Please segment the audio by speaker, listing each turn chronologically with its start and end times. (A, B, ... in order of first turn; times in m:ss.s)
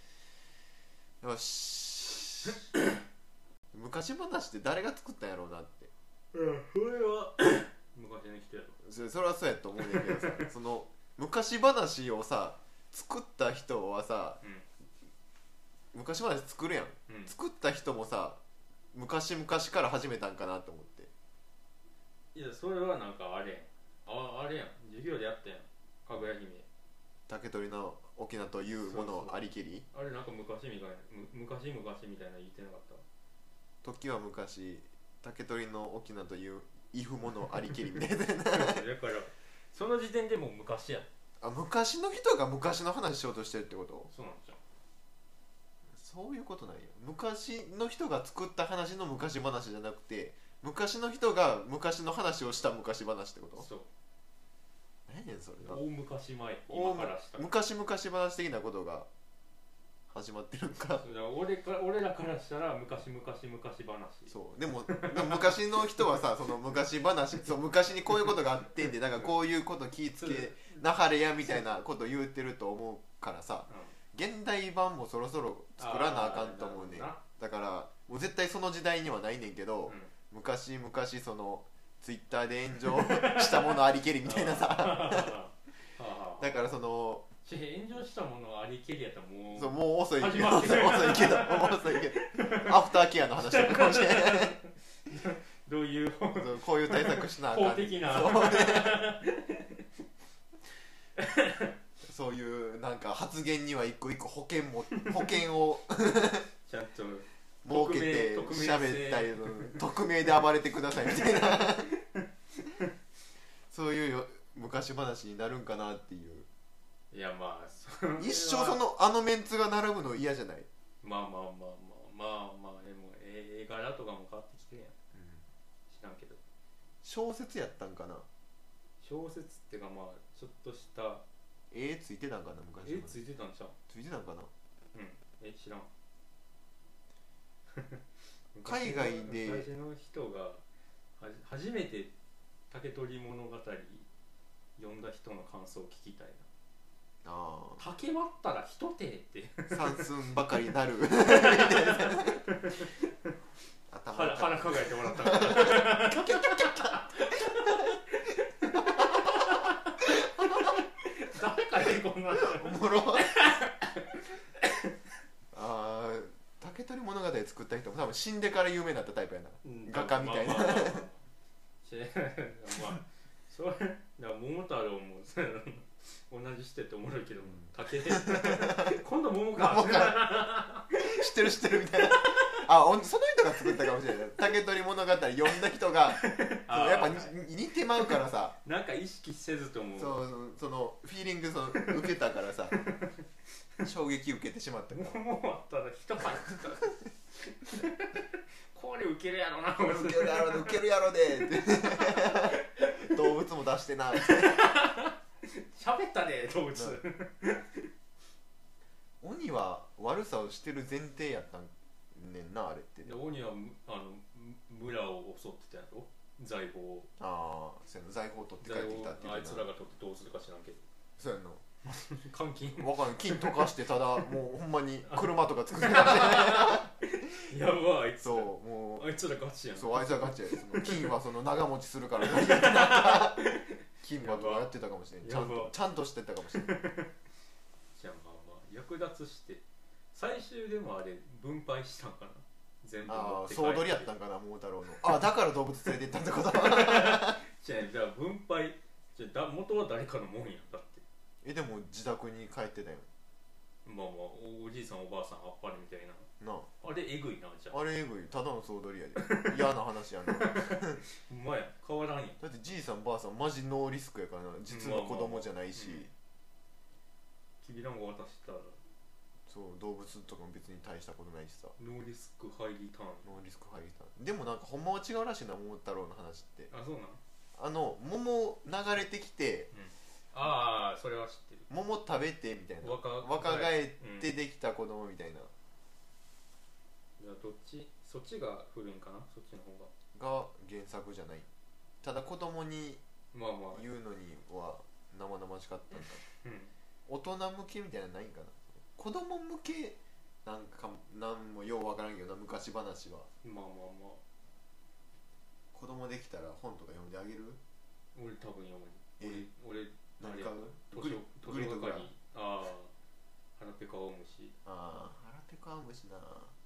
0:01.2-0:02.8 A
0:03.7-0:05.9 A
0:06.3-0:08.8 B
0:08.8-0:14.4 A
0:09.8-0:10.5 B
0:15.9-0:18.4 A
0:17.1-0:17.3 B
0:18.9-0:21.1 A
0:22.3-0:26.7 B
0:27.3-0:29.8 A
0:28.8-0:33.0 B
0:33.8-0:38.8 A
0:38.4-0:41.1 B
0:41.4-0:44.1 A
0:44.1-0:44.6 B
0:45.9-0:53.7 A
0:53.6-0:53.9 B
0:55.1-0:55.8 A
0:55.6-0:57.5 B
0:56.7-0:59.1 A
1:00.1-1:01.0 A
1:01.0-1:04.3 B
1:04.3-1:25.4 A
1:04.9-1:05.7 B
1:10.2-1:10.8 B
1:13.7-1:13.9 B
1:15.8-1:17.2 B
1:19.9-1:20.1 B
1:22.8-1:26.6 B
1:26.4-1:27.3 A
1:27.4-1:39.8 B
1:29.5-1:34.6 A
1:36.3-1:39.0 A
1:41.2-1:41.7 B
1:42.0-1:46.5 A
1:46.7-1:49.8 B
1:47.6-1:51.9 A
1:51.0-1:52.2 B
1:53.7-1:56.4 A
1:57.1-1:58.8 B
1:58.2-2:00.7 A
2:01.0-2:04.9 B
2:05.1-2:05.4 A
2:05.9-2:06.4 B
2:07.0-2:08.3 A
2:09.0-2:11.2 B
2:11.7-2:13.2 A
2:12.8-2:13.8 B
2:13.9-2:14.5 A
2:14.9-2:15.9 B
2:18.5-2:20.6 B
2:18.6-2:19.7 A
2:21.2-2:22.1 B
2:22.7-2:24.0 B
2:24.8-2:26.4 B
2:27.2-2:27.8 A
2:27.8-2:30.1 B
2:29.7-2:32.4 A
2:31.2-2:33.0 B
2:33.9-2:37.0 A
2:34.1-2:44.9 B
2:38.8-2:39.6 A
2:42.4-2:43.4 A
2:45.5-2:51.0 A
2:49.6-2:51.2 B
2:51.8-3:01.3 B
2:57.4-2:59.0 A
2:59.5-3:08.6 A
3:02.0-3:02.6 B
3:06.1-3:10.2 B
3:10.0-3:12.8 A
3:11.8-3:12.0 B
3:12.8-3:13.1 B
3:13.8-3:15.2 A
3:14.9-3:23.4 B
3:19.8-3:24.7 A
3:24.2-3:27.9 B
3:26.7-3:27.0 A
3:29.2-3:33.2 A
3:33.0-3:37.1 B
3:37.2-3:39.7 A
3:38.6-3:40.8 B
3:41.2-3:41.7 A
3:41.9-3:43.7 B
3:42.8-3:46.9 A
3:45.0-3:51.1 B
3:48.2-3:49.1 A
3:49.7-3:53.4 A
3:52.2-3:54.7 B
3:54.0-3:56.8 A
3:55.2-3:55.8 B
3:56.5-3:57.1 B
3:58.0-4:04.1 B
4:03.0-4:07.4 A
4:06.5-4:11.0 B
4:11.4-4:13.1 A
4:13.8-4:16.3 B
4:16.4-4:16.7 A
4:16.8-4:17.8 B
4:17.7-4:21.0 A
4:19.2-4:19.6 B
4:20.3-4:22.4 B
4:22.4-4:26.1 A
4:24.7-4:26.1 B
4:27.6-4:28.8 B
4:29.5-4:31.7 A
4:31.8-4:33.3 B
4:33.2-4:36.7 A
4:36.7-4:37.2 B
4:37.6-4:39.7 A
4:39.7-4:41.7 B
4:41.7-4:45.5 A
4:42.8-4:44.3 B
4:47.2-4:49.9 B
4:50.1-4:51.5 A
4:52.0-4:53.0 A
4:53.3-4:53.8 B
4:53.7-4:56.2 A
4:56.4-4:56.7 B
4:57.1-5:03.3 A
5:03.4-5:04.2 B
5:05.7-5:07.6 A
5:08.1-5:12.9 B
5:09.2-5:09.5 A
5:10.2-5:12.1 A
5:13.6-5:14.5 B
5:14.6-5:16.5 A